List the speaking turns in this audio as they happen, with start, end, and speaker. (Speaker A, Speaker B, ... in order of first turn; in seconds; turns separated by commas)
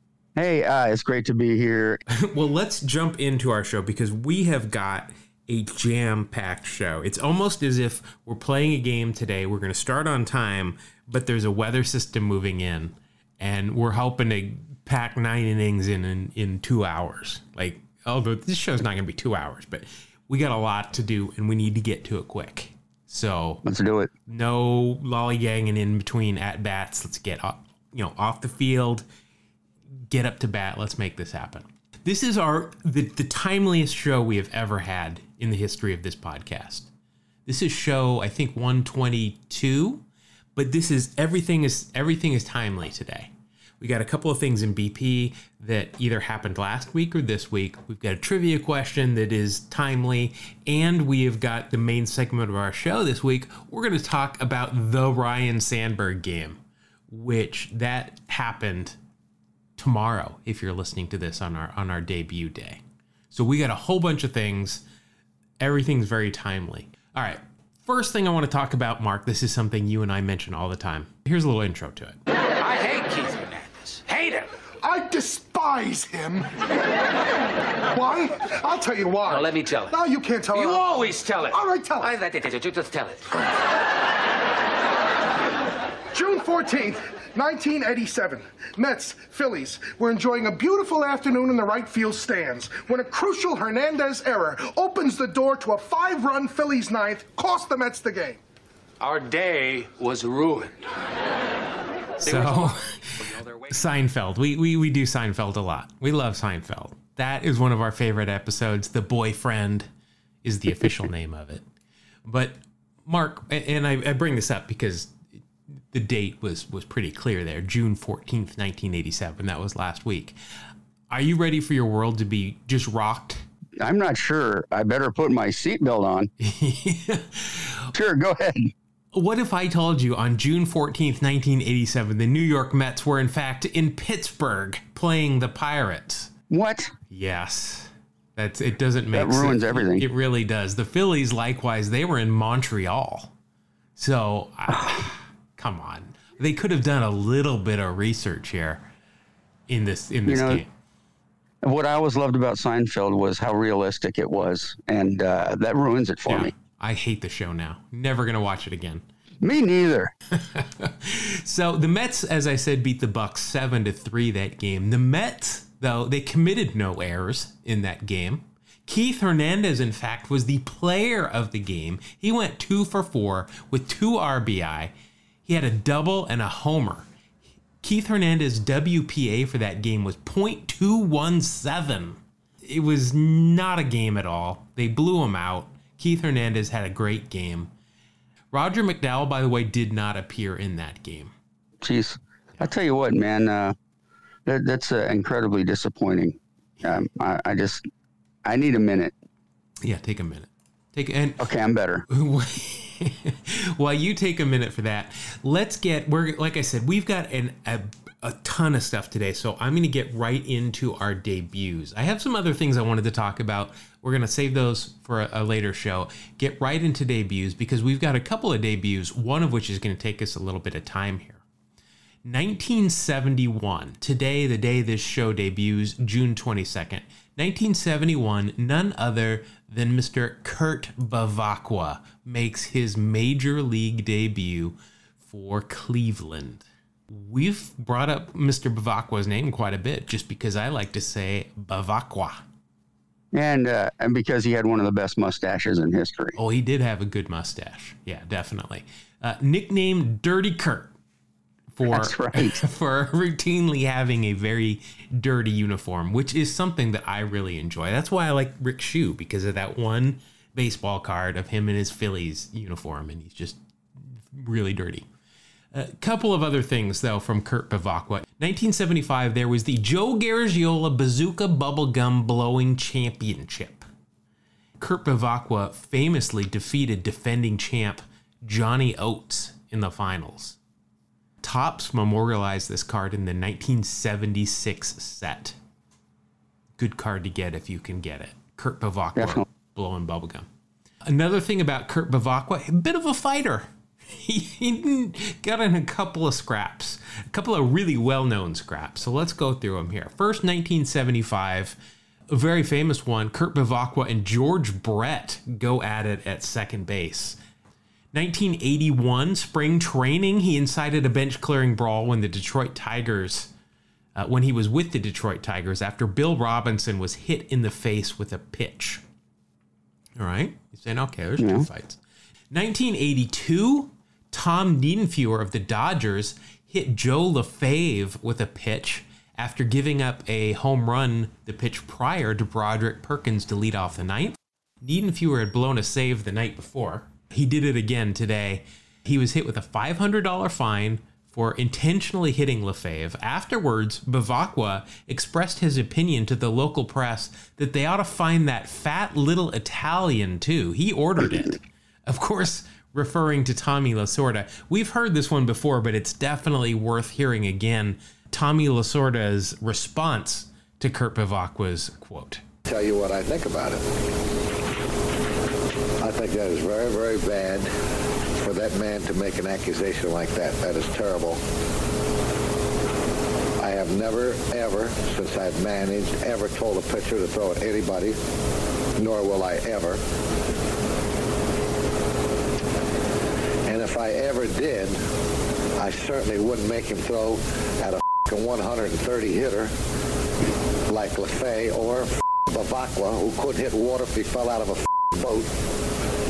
Speaker A: 0.4-2.0, Speaker B: 2.1-23.6, Speaker A: 23.6-24.1, Speaker B: 24.3-29.0, Speaker B: 30.1-36.9, Speaker B: 37.5-40.0, Speaker B: 40.5-59.0, Speaker B: 59.8-64.8, Speaker B: 65.6-72.2, Speaker C: 72.6-74.5, Speaker D: 74.8-76.6, Speaker D: 77.9-82.1, Speaker C: 79.3-79.9, Speaker C: 80.5-83.3, Speaker D: 86.1-98.4, Speaker C: 99.0-100.8, Speaker B: 102.2-109.9, Speaker C: 102.2-103.7, Speaker B: 110.4-111.6, Speaker B: 112.2-115.2, Speaker B: 115.9-120.3, Speaker B: 121.1-123.4, Speaker A: 123.8-126.3, Speaker B: 126.4-127.9, Speaker A: 127.9-128.7, Speaker B: 129.1-136.3, Speaker A: 136.5-136.9, Speaker B: 137.1-143.3, Speaker A: 139.1-140.1, Speaker B: 143.9-148.8, Speaker B: 149.7-150.7, Speaker A: 150.2-150.6, Speaker A: 151.6-156.5, Speaker B: 156.3-159.0, Speaker A: 159.4-160.1, Speaker B: 160.3-174.9, Speaker B: 175.4-177.1, Speaker B: 177.8-187.7, Speaker B: 188.5-191.3, Speaker A: 191.8-193.8, Speaker A: 194.4-197.8, Speaker A: 198.4-199.1, Speaker B: 199.8-201.5, Speaker A: 201.4-202.0, Speaker B: 202.1-221.4, Speaker B: 222.2-242.4, Speaker A: 243.3-246.4, Speaker B: 246.4-250.9, Speaker B: 251.8-265.1, Speaker A: 251.9-252.6, Speaker B: 265.7-273.8, Speaker B: 274.8-280.6, Speaker B: 281.4-285.6, Speaker B: 286.8-290.5, Speaker A: 289.1-289.4, Speaker B: 291.1-301.8, Speaker B: 302.3-307.4, Speaker B: 308.1-313.5, Speaker B: 314.1-319.0, Speaker B: 320.1-322.0, Speaker A: 321.4-321.7, Speaker B: 322.5-362.4, Speaker E: 362.7-364.0, Speaker E: 366.0-367.7, Speaker E: 368.3-371.4, Speaker E: 373.6-378.2, Speaker E: 378.9-380.0, Speaker E: 383.6-385.0, Speaker E: 385.8-389.7, Speaker E: 390.9-395.6